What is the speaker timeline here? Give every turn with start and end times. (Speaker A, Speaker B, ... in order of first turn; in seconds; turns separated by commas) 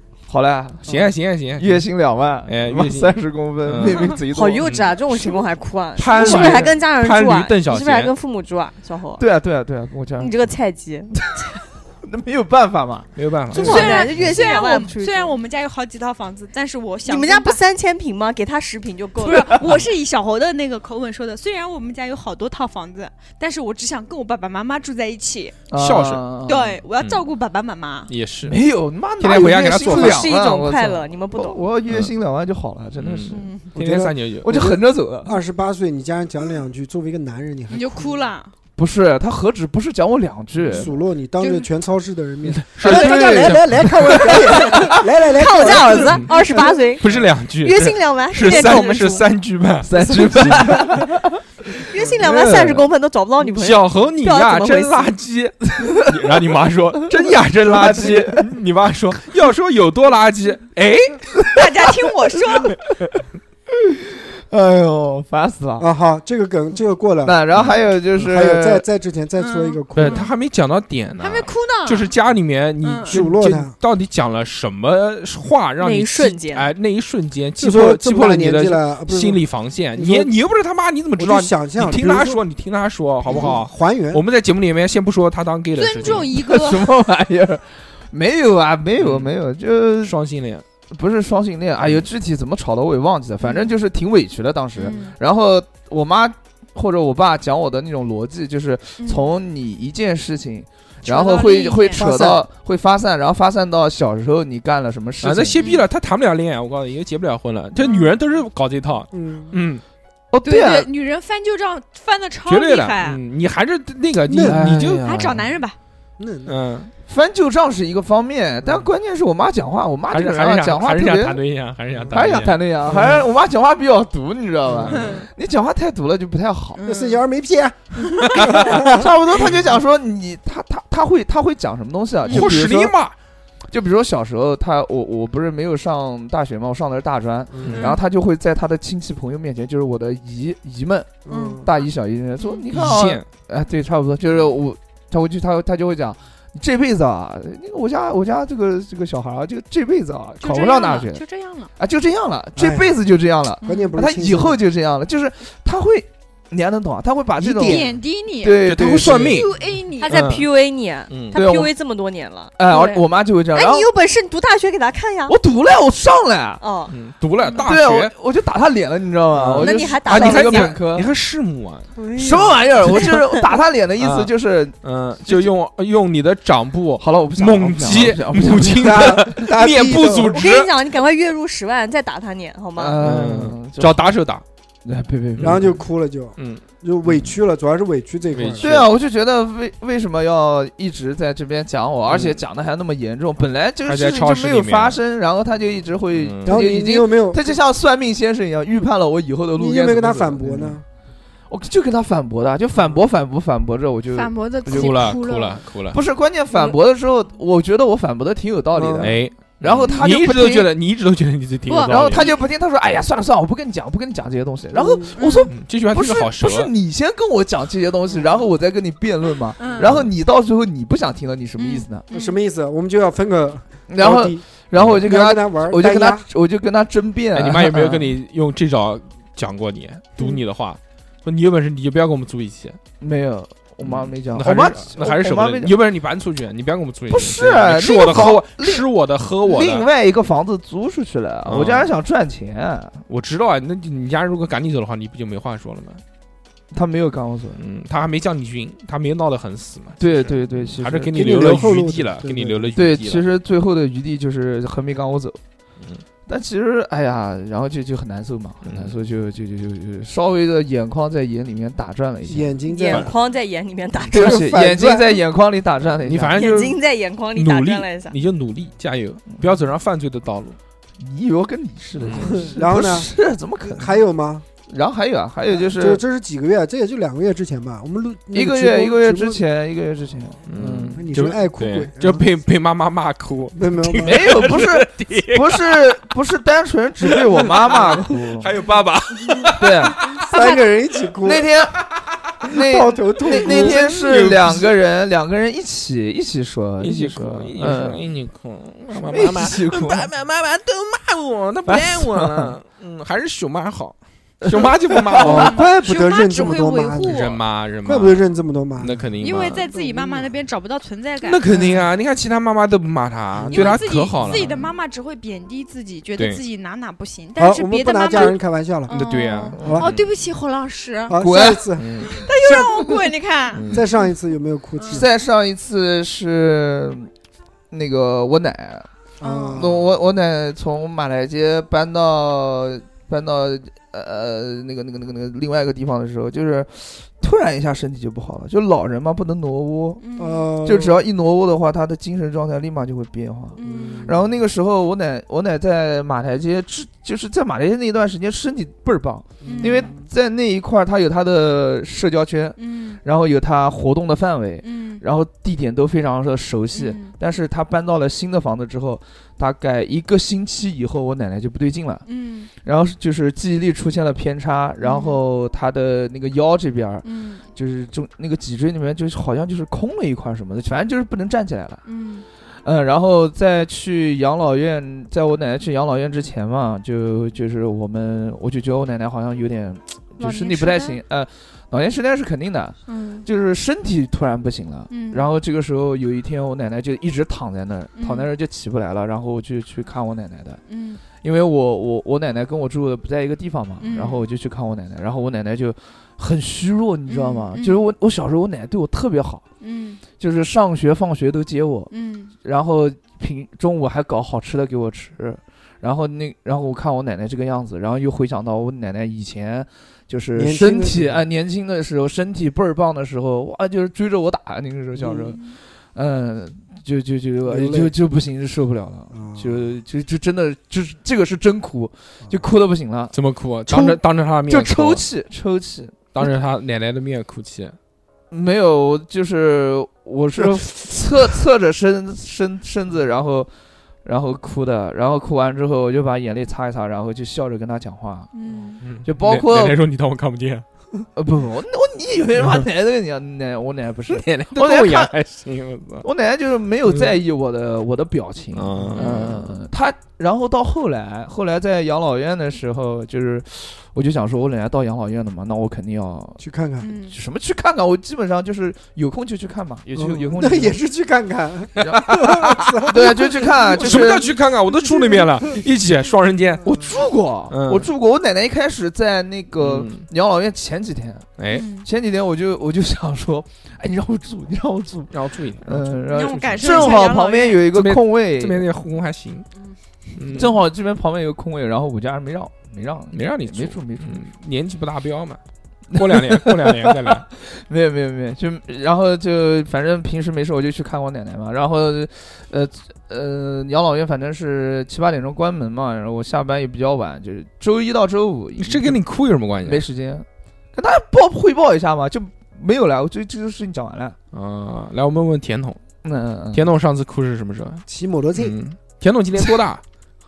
Speaker A: 0.3-5.4, Speaker B: 0.9-1.9, Speaker B: 2.5-4.9, Speaker C: 4.2-9.2, Speaker B: 6.0-8.1, Speaker A: 6.1-6.8, Speaker A: 9.2-10.3, Speaker C: 10.2-11.2, Speaker A: 12.0-14.4, Speaker B: 13.2-14.0, Speaker C: 13.5-15.3, Speaker D: 13.6-17.6, Speaker C: 17.0-19.7, Speaker D: 19.2-25.6, Speaker A: 25.7-26.8, Speaker B: 25.7-26.2, Speaker D: 26.4-28.1, Speaker B: 27.0-27.2, Speaker B: 28.1-28.6, Speaker A: 28.4-33.5, Speaker B: 29.2-30.3, Speaker C: 29.7-31.6, Speaker B: 31.9-32.1, Speaker B: 33.0-34.7, Speaker D: 33.3-33.6, Speaker E: 33.7-38.2, Speaker A: 34.4-35.4, Speaker D: 37.7-38.5, Speaker A: 38.8-40.9, Speaker B: 40.5-40.9, Speaker E: 40.7-46.9, Speaker D: 41.4-41.7, Speaker B: 42.4-44.4, Speaker A: 42.8-45.0, Speaker C: 44.5-49.2, Speaker B: 46.0-46.3, Speaker B: 47.0-51.0, Speaker A: 49.8-51.4, Speaker C: 51.9-55.1, Speaker A: 52.1-52.9, Speaker B: 53.4-61.4, Speaker A: 57.6-58.5, Speaker D: 61.5-62.8, Speaker A: 64.5-65.9, Speaker E: 65.8-67.4, Speaker A: 67.2-68.8, Speaker E: 68.1-70.3, Speaker D: 69.4-70.3, Speaker B: 69.9-86.3, Speaker D: 71.2-72.1, Speaker D: 72.8-73.2, Speaker E: 73.1-73.7, Speaker C: 75.8-76.7, Speaker E: 77.6-79.4, Speaker E: 80.0-80.3, Speaker E: 81.2-82.4, Speaker E: 83.3-84.2, Speaker D: 85.7-86.9, Speaker A: 86.0-90.2, Speaker B: 89.0-89.3, Speaker B: 90.0-90.6, Speaker A: 90.9-105.6, Speaker D: 93.4-93.7, Speaker D: 94.8-95.2, Speaker D: 99.0-99.3, Speaker D: 101.0-102.1, Speaker E: 102.0-102.4, Speaker B: 105.2-109.8, Speaker D: 105.6-105.8, Speaker D: 107.8-108.1, Speaker E: 109.1-109.5, Speaker A: 110.3-110.9, Speaker D: 110.4-113.2, Speaker B: 112.5-115.4, Speaker E: 114.3-114.7, Speaker A: 114.4-115.4, Speaker D: 115.0-115.8, Speaker E: 116.2-116.5, Speaker B: 116.5-116.9, Speaker A: 117.1-121.4, Speaker B: 120.1-123.1, Speaker A: 122.1-126.8, Speaker D: 124.9-125.2, Speaker D: 126.8-127.2, Speaker E: 126.8-129.1, Speaker D: 128.0-128.5, Speaker B: 128.4-128.7, Speaker A: 128.6-132.9, Speaker D: 132.2-132.5, Speaker B: 132.3-133.1, Speaker A: 133.7-151.2, Speaker E: 137.5-137.8, Speaker B: 137.6-137.9, Speaker D: 137.7-138.0, Speaker E: 141.3-141.7, Speaker D: 141.3-141.9, Speaker D: 142.4-142.6, Speaker B: 142.7-143.2, Speaker D: 150.4-151.7, Speaker A: 151.8-159.5, Speaker E: 152.6-152.9, Speaker D: 153.6-153.9, Speaker E: 153.6-154.6, Speaker D: 157.4-160.2, Speaker E: 157.5-157.8, Speaker B: 158.5-159.5, Speaker C: 160.0-165.4, Speaker B: 160.1-160.5, Speaker B: 161.1-161.4, Speaker A: 161.3-161.7, Speaker A: 162.6-163.9, Speaker A: 165.3-166.6, Speaker C: 166.6-166.9, Speaker B: 166.9-168.1, Speaker D: 167.4-167.7, Speaker A: 167.6-171.1, Speaker B: 169.3-171.9, Speaker C: 169.6-170.8, Speaker E: 171.9-172.7, Speaker A: 172.2-175.5, Speaker B: 174.0-180.7, Speaker A: 177.0-179.4, Speaker E: 178.8-180.4, Speaker C: 180.3-183.0, Speaker A: 182.8-184.1, Speaker B: 183.0-184.4, Speaker A: 184.8-185.8, Speaker B: 185.4-185.7, Speaker E: 185.4-188.8, Speaker B: 186.4-187.3, Speaker B: 188.3-188.9, Speaker A: 188.6-200.8, Speaker B: 192.1-192.4, Speaker B: 193.8-195.0, Speaker B: 196.1-196.7, Speaker E: 196.4-197.5, Speaker E: 199.6-200.8, Speaker A: 201.5-205.0, Speaker D: 204.1-205.6, Speaker B: 204.7-206.0, Speaker A: 205.9-210.7, Speaker E: 208.7-209.1, Speaker B: 209.0-212.3, Speaker D: 211.7-212.4, Speaker A: 211.9-222.1, Speaker E: 214.7-215.1, Speaker D: 215.2-215.5, Speaker B: 215.5-216.7, Speaker D: 219.6-219.9, Speaker B: 219.8-220.1, Speaker D: 221.6-222.4, Speaker E: 222.1-226.3, Speaker A: 223.9-228.2, Speaker B: 227.3-232.8, Speaker A: 233.0-235.7, Speaker B: 233.8-239.9, Speaker A: 237.1-238.8, Speaker A: 239.4-243.0, Speaker B: 241.4-241.9, Speaker B: 243.1-246.0, Speaker A: 246.7-247.6, Speaker B: 247.6-253.3, Speaker A: 250.0-251.3, Speaker E: 251.1-252.9, Speaker A: 252.8-255.4, Speaker A: 256.3-263.1, Speaker B: 258.6-258.9, Speaker E: 262.3-263.1, Speaker C: 262.7-264.5, Speaker E: 264.1-265.2, Speaker A: 264.1-266.4, Speaker B: 266.0-266.8, Speaker C: 266.3-268.1, Speaker B: 267.3-270.6, Speaker A: 271.0-273.9, Speaker B: 272.0-272.4, Speaker E: 272.3-273.1, Speaker E: 273.6-274.4, Speaker A: 274.7-276.0, Speaker E: 275.5-279.4, Speaker A: 278.3-281.0, Speaker B: 280.5-285.9, Speaker E: 280.9-282.3, Speaker E: 283.6-284.4, Speaker A: 284.0-288.5, Speaker B: 287.1-290.2, Speaker A: 289.6-290.1, Speaker E: 290.1-291.5, Speaker D: 290.3-290.6, Speaker A: 291.2-291.8, Speaker A: 292.4-298.0, Speaker E: 292.5-294.1, Speaker B: 293.3-294.7, Speaker B: 296.8-305.6, Speaker A: 298.9-300.1, Speaker A: 301.7-302.6, Speaker A: 304.4-305.5, Speaker E: 305.2-307.2, Speaker D: 305.3-307.4, Speaker B: 307.1-308.2, Speaker E: 307.8-309.0, Speaker B: 308.8-309.7, Speaker D: 309.2-311.4, Speaker E: 309.7-310.3, Speaker B: 311.2-314.7, Speaker E: 311.5-311.8, Speaker E: 313.3-313.8, Speaker D: 313.5-321.2, Speaker E: 317.4-318.9, Speaker B: 318.9-320.1, Speaker E: 319.6-319.9, Speaker A: 319.6-319.9, Speaker E: 321.1-323.0, Speaker A: 321.1-321.7, Speaker B: 321.8-322.1, Speaker D: 322.0-324.1, Speaker B: 323.5-323.9, Speaker E: 323.7-325.1, Speaker D: 324.8-325.0, Speaker A: 324.9-327.1, Speaker A: 327.7-328.9, Speaker E: 329.2-329.9, Speaker D: 329.2-329.6, Speaker A: 329.5-340.0, Speaker D: 340.0-340.5, Speaker E: 340.2-341.0, Speaker A: 340.6-371.8, Speaker D: 343.6-344.1, Speaker E: 343.6-344.3, Speaker E: 349.4-350.1, Speaker D: 349.4-349.9, Speaker D: 352.6-353.0, Speaker D: 354.6-355.0, Speaker D: 356.7-357.1, Speaker D: 362.1-362.5, Speaker D: 364.8-365.2, Speaker D: 367.0-367.4, Speaker D: 371.8-372.3, Speaker A: 372.5-390.6, Speaker D: 380.2-381.0, Speaker D: 382.9-383.3, Speaker D: 384.9-385.3, Speaker D: 388.0-388.3, Speaker D: 390.7-391.0, Speaker A: 391.2-399.4, Speaker D: 393.8-394.3, Speaker D: 397.1-397.8, Speaker D: 399.6-400.0, Speaker A: 400.2-423.1, Speaker D: 401.9-402.3, Speaker E: 410.3-411.2, Speaker E: 414.9-415.3, Speaker E: 417.4-417.9, Speaker E: 419.1-419.7, Speaker B: 423.1-425.1, Speaker A: 423.7-426.3, Speaker B: 426.1-427.8, Speaker A: 428.3-433.5, Speaker A: 434.1-438.3, Speaker D: 438.3-438.8, Speaker B: 438.8-440.6, Speaker A: 439.0-439.8, Speaker A: 441.1-445.1, Speaker B: 444.1-446.1, Speaker A: 446.0-456.4, Speaker B: 446.9-447.1, Speaker B: 448.5-449.6, Speaker D: 449.0-449.3, Speaker E: 456.4-456.9, Speaker D: 456.8-457.1, Speaker A: 457.1-460.8, Speaker B: 459.9-460.3, Speaker E: 459.9-464.1, Speaker A: 461.8-462.1, Speaker B: 461.8-466.8, Speaker A: 462.8-464.3, Speaker E: 464.8-465.6, Speaker A: 466.6-478.6, Speaker B: 467.5-467.9, Speaker B: 469.6-470.1, Speaker B: 471.4-471.6, Speaker D: 471.5-471.9, Speaker B: 475.1-477.0, Speaker D: 476.1-477.6, Speaker B: 477.7-479.5, Speaker B: 480.1-480.6, Speaker A: 480.3-484.2, Speaker B: 483.1-485.4, Speaker B: 485.9-487.3, Speaker A: 485.9-499.0, Speaker B: 498.6-499.8, Speaker A: 499.6-504.1, Speaker B: 504.3-505.8, Speaker A: 506.0-506.6, Speaker B: 506.5-509.8, Speaker E: 507.9-508.6